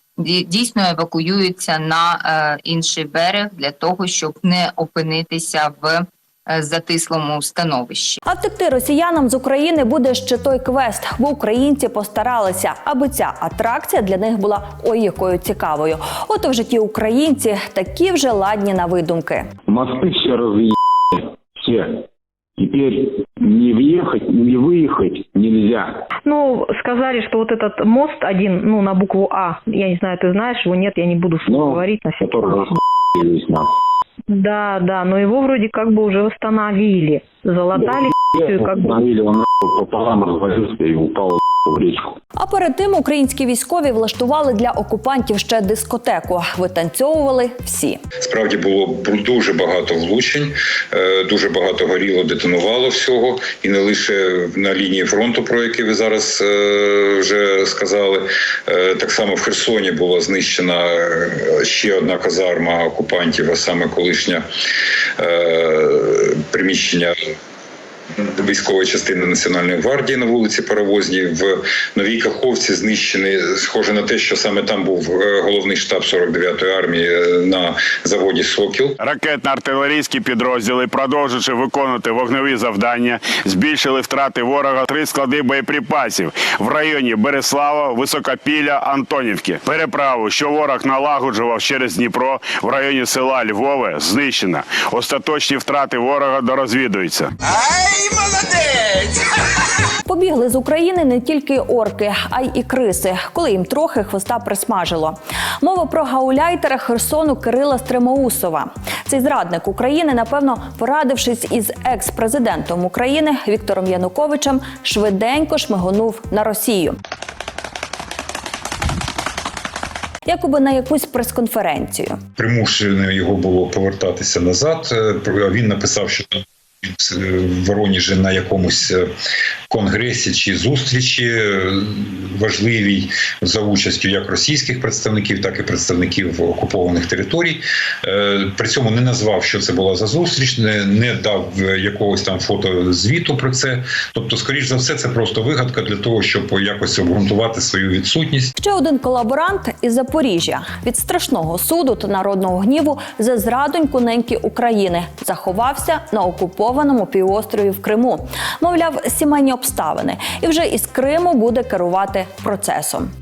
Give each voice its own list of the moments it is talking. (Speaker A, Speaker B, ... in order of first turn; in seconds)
Speaker A: 0.2-8.2
Speaker B: 8.2-19.5, 42.4-48.0, 100.0-117.0, 120.3-122.2, 148.6-163.1
Speaker C: 19.7-22.0, 22.6-26.0, 31.4-33.7, 37.7-42.1
Speaker D: 26.2-32.5, 34.3-38.9
Speaker E: 48.2-64.4, 65.2-67.1, 68.3-79.0, 122.4-129.1, 129.7-148.5
Speaker F: 79.0-97.3